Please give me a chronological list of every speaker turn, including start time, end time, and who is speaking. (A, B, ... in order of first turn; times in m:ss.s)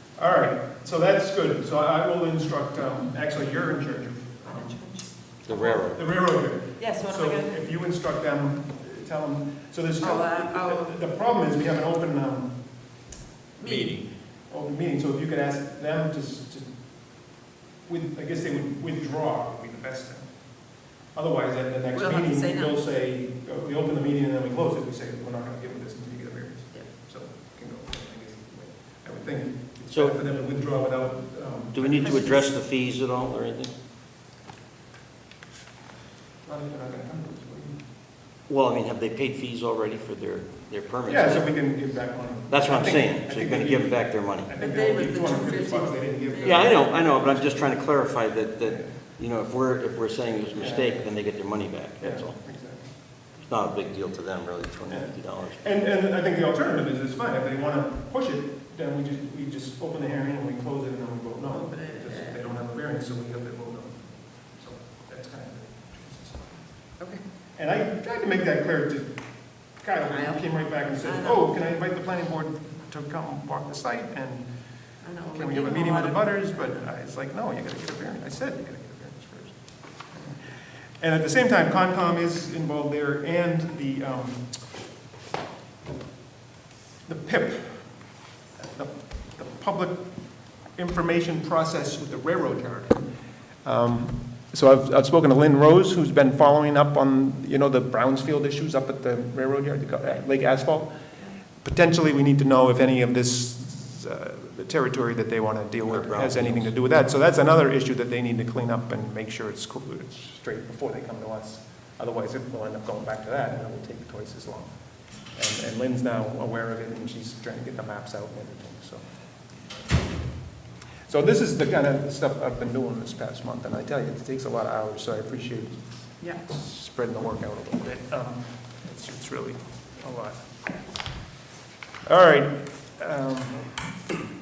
0:00.2-0:13.0 A
0:04.4-0:05.8 B
0:05.4-0:06.0 C
0:06.8-0:07.6 B
0:10.0-0:11.0 B
0:13.6-0:14.0 B
0:13.7-0:17.2 A
0:17.8-0:32.3 A
0:21.9-0:22.7 B
0:29.9-0:30.2 C
0:31.7-0:33.7 C
0:32.0-0:32.5 B
0:36.4-0:37.8 A
0:38.5-0:41.6 C
0:41.1-0:48.0 A
0:42.5-0:44.5 C
0:44.6-0:46.8 B
0:46.4-0:52.4 C
0:48.6-0:49.0 A
0:50.6-0:51.2 A
0:52.0-0:53.0 A
0:53.5-0:55.6 C
0:54.9-1:06.7 A
1:01.5-1:02.5 B
1:07.6-1:14.5 A
1:10.1-1:11.6 B
1:15.0-1:16.9 B
1:15.3-1:24.5 A
1:27.1-1:41.0 A
1:41.5-1:59.0 A
1:45.9-1:46.8 C
2:01.1-2:10.5 A
2:12.1-2:14.0 A